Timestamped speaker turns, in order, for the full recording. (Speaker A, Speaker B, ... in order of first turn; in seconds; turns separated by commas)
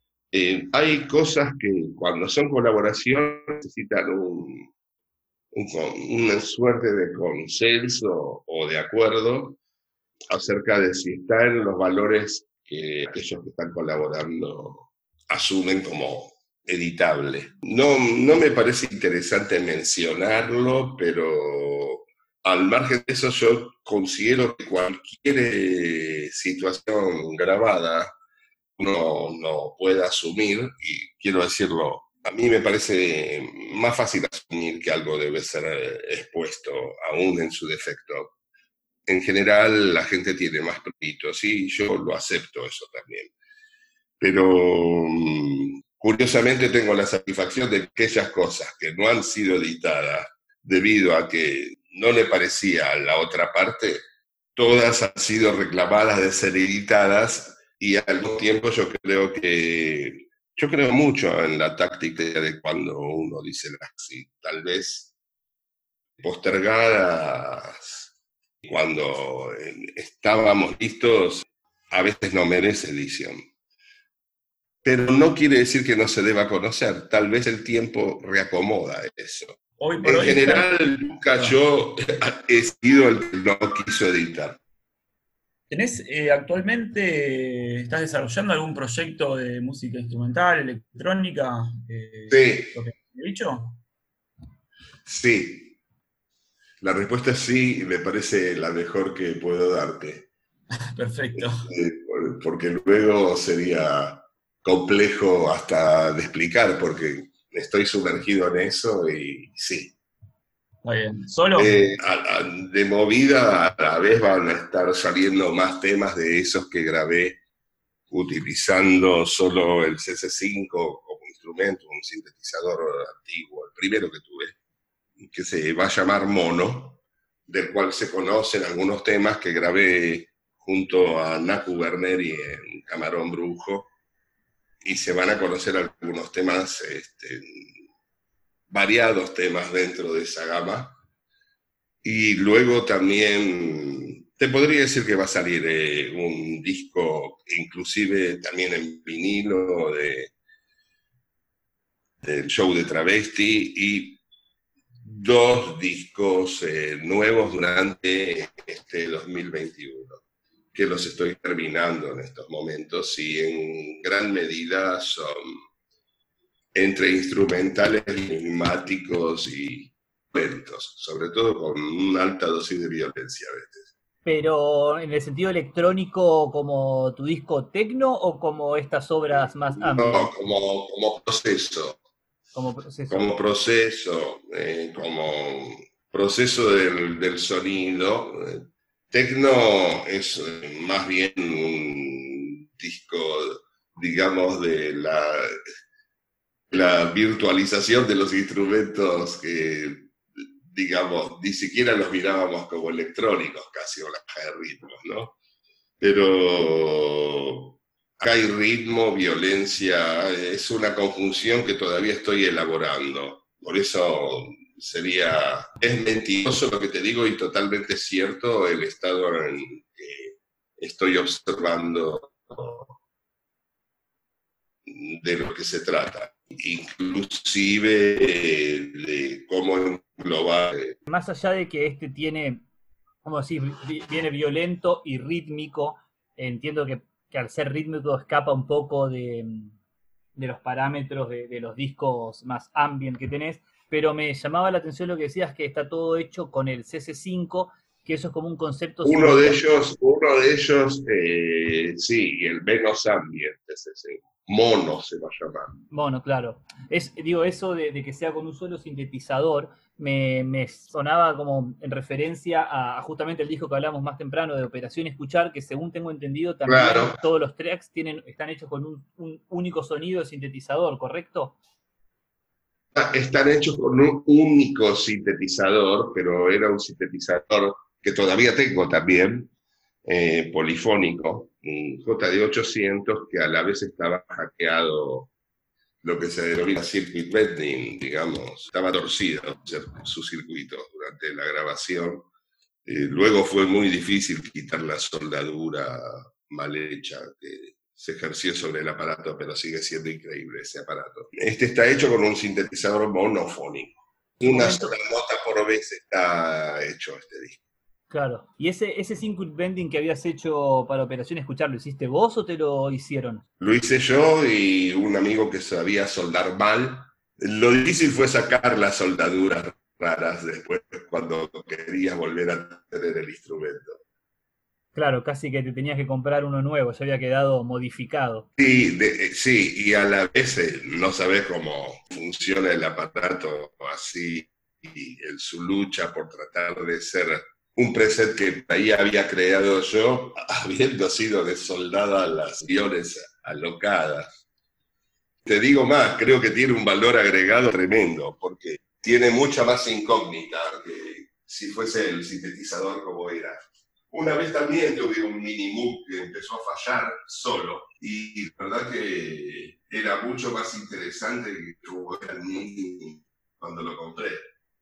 Speaker A: 0.3-4.7, Speaker A: 5.5-9.6, Speaker A: 10.3-28.1, Speaker A: 28.8-38.3, Speaker A: 39.1-43.3, Speaker A: 44.2-54.0, Speaker A: 54.6-65.1, Speaker A: 66.2-68.1, Speaker A: 68.6-73.4, Speaker A: 74.8-84.6, Speaker B: 79.8-80.7, Speaker B: 85.7-93.8, Speaker A: 92.3-92.8, Speaker A: 95.0-95.8, Speaker A: 96.8-100.3, Speaker B: 100.9-101.7, Speaker A: 101.4-109.9, Speaker B: 110.8-112.0, Speaker A: 111.6-117.4, Speaker A: 118.1-124.6, Speaker A: 125.2-133.9, Speaker A: 134.8-137.7, Speaker A: 138.7-141.0, Speaker A: 142.0-150.3, Speaker A: 152.2-154.2, Speaker A: 155.1-160.2, Speaker A: 160.7-165.6, Speaker A: 166.7-173.9, Speaker C: 174.2-180.3, Speaker A: 179.7-182.0, Speaker C: 182.5-183.3, Speaker A: 183.1-195.6, Speaker A: 196.7-200.2, Speaker A: 200.7-205.4, Speaker A: 206.0-222.9, Speaker A: 224.9-231.0, Speaker C: 231.1-232.7, Speaker C: 233.2-239.8, Speaker C: 240.4-249.6, Speaker A: 249.0-255.7, Speaker C: 255.9-271.6, Speaker A: 266.7-267.2, Speaker A: 272.9-279.5, Speaker A: 280.1-285.3, Speaker A: 286.0-292.3, Speaker A: 292.9-307.6, Speaker C: 304.4-304.9, Speaker C: 308.1-313.4, Speaker A: 313.6-324.0, Speaker C: 324.9-328.5, Speaker A: 328.6-344.4, Speaker A: 345.4-353.6, Speaker A: 354.1-364.5